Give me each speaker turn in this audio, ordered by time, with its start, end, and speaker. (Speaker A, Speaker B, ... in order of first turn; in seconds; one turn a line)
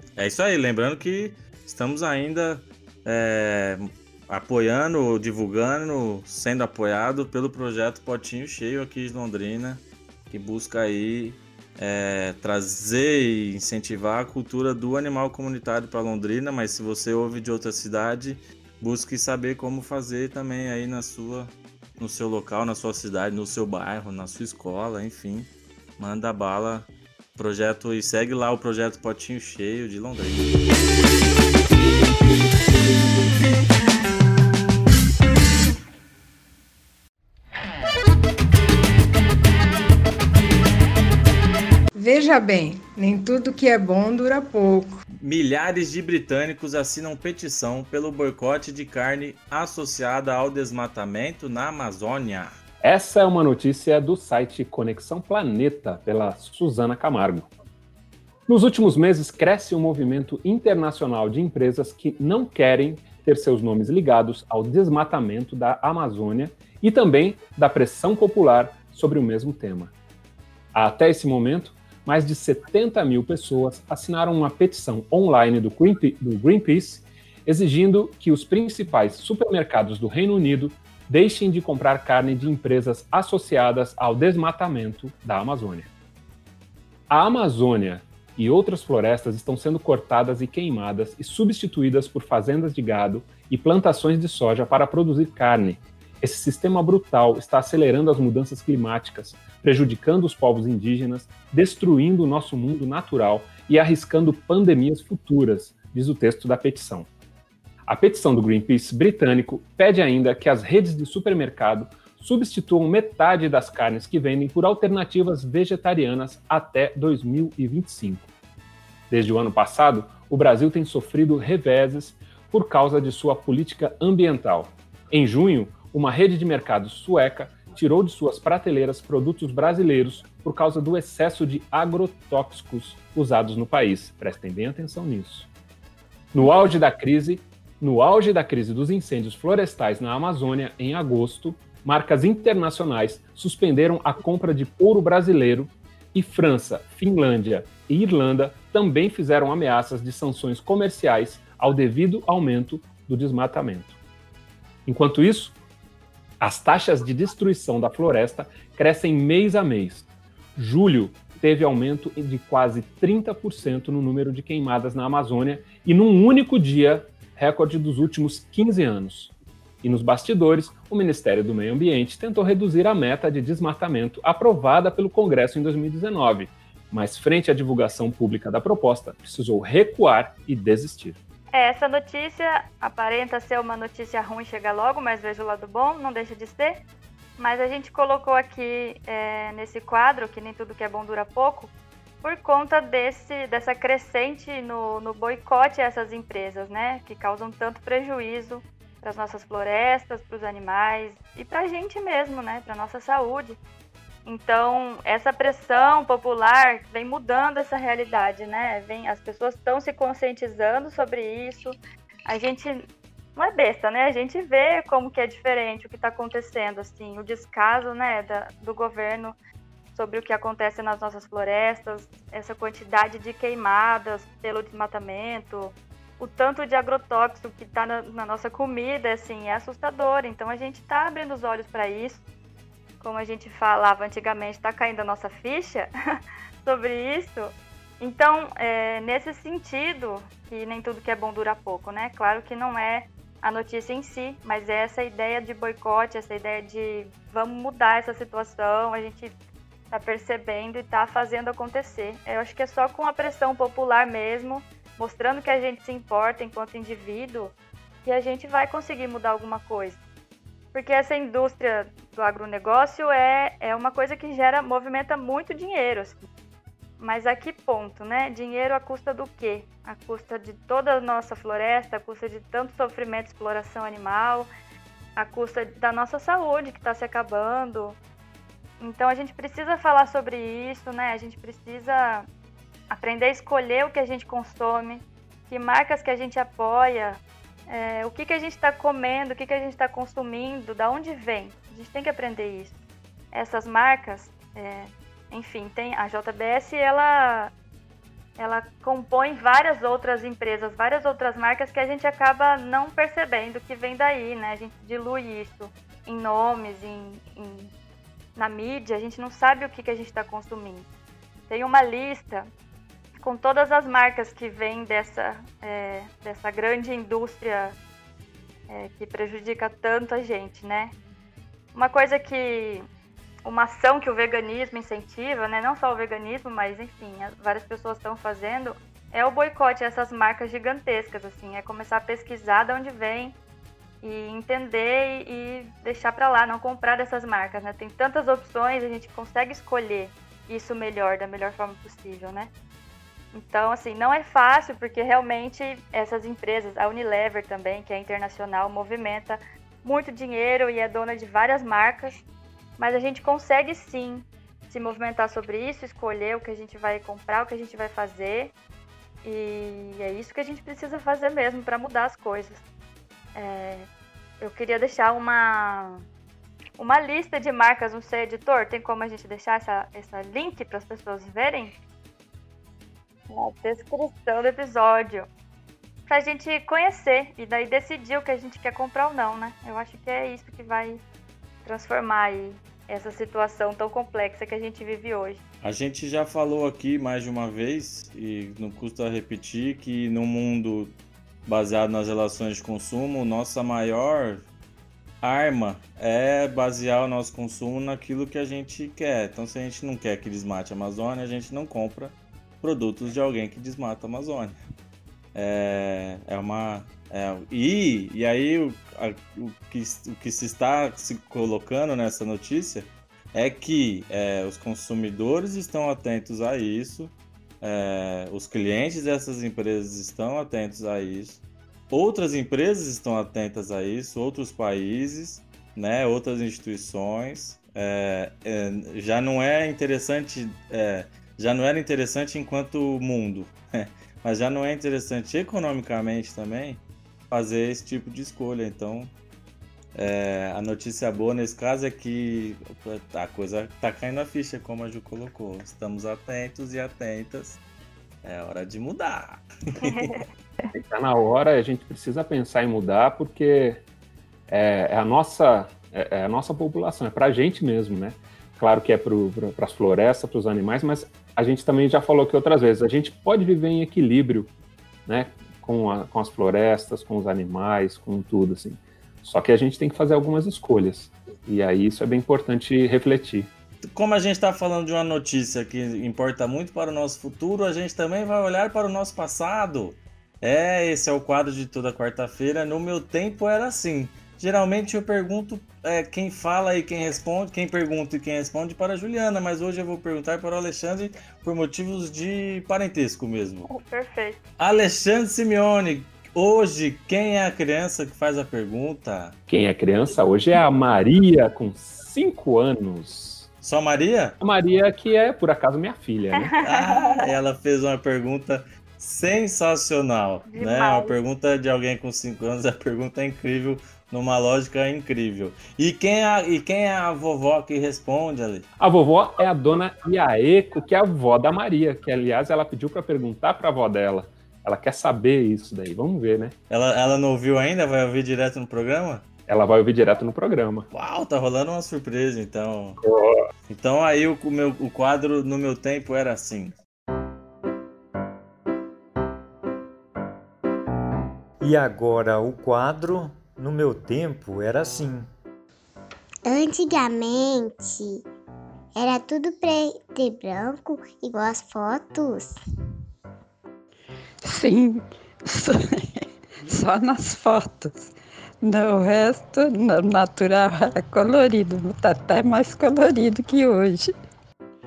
Speaker A: 0.2-30.5
Speaker B: 41.9-45.0
Speaker A: 45.2-52.5
Speaker C: 52.8-57.5
Speaker C: 58.5-69.9
Speaker C: 70.7-85.9
Speaker C: 87.1-107.1
Speaker C: 107.9-118.3
Speaker C: 119.1-135.5
Speaker C: 136.3-154.0
Speaker C: 154.9-155.6
Speaker C: 156.4-160.1
Speaker C: 160.6-181.2
Speaker D: 181.5-186.8
Speaker D: 187.4-191.7
Speaker D: 192.2-203.6
Speaker D: 204.2-212.8
Speaker D: 213.4-219.3
Speaker D: 219.9-232.2
Speaker D: 233.0-235.9
Speaker D: 236.6-249.3
Speaker D: 249.9-257.5
Speaker D: 258.1-260.0
Speaker D: 260.7-266.3
Speaker D: 267.0-274.5
Speaker D: 275.2-278.0
Speaker D: 278.8-282.3
Speaker D: 282.9-292.7
Speaker D: 293.3-297.5
Speaker D: 298.4-307.7
Speaker D: 308.4-310.9
Speaker D: 311.5-312.5
Speaker D: 313.2-317.8
Speaker D: 318.7-320.9
Speaker D: 321.7-322.9
Speaker D: 323.4-333.4
Speaker D: 334.0-342.5
Speaker D: 343.3-352.2
Speaker D: 352.8-358.5
Speaker D: 359.2-362.6
Speaker D: 363.4-363.9
Speaker D: 364.4-366.0
Speaker D: 366.8-371.8
Speaker D: 373.3-375.3
Speaker D: 376.1-381.0
Speaker D: 381.6-385.4
Speaker A: 385.6-394.4
Speaker A: 395.2-404.6
Speaker A: 405.4-439.1
Speaker A: 439.9-447.6
Speaker A: 448.2-450.2
Speaker D: 449.8-450.2
Speaker C: 450.7-453.8
Speaker C: 454.5-464.5
Speaker C: 465.1-473.5
Speaker A: 473.8-493.7
Speaker D: 493.7-494.4
Speaker A: 494.6-499.4
Speaker C: 499.5-503.5
Speaker A: 503.6-504.4
Speaker C: 504.4-506.5
Speaker D: 506.5-507.2
Speaker A: 506.6-518.7
Speaker D: 510.5-511.2
Speaker C: 518.8-526.5
Speaker A: 526.7-529.2
Speaker C: 529.5-530.9
Speaker A: 530.9-533.0
Speaker C: 533.0-533.4
Speaker A: 533.7-536.8
Speaker E: 541.6-545.3
Speaker F: 546.5-548.2
Speaker F: 549.0-552.6
Speaker G: 554.4-564.1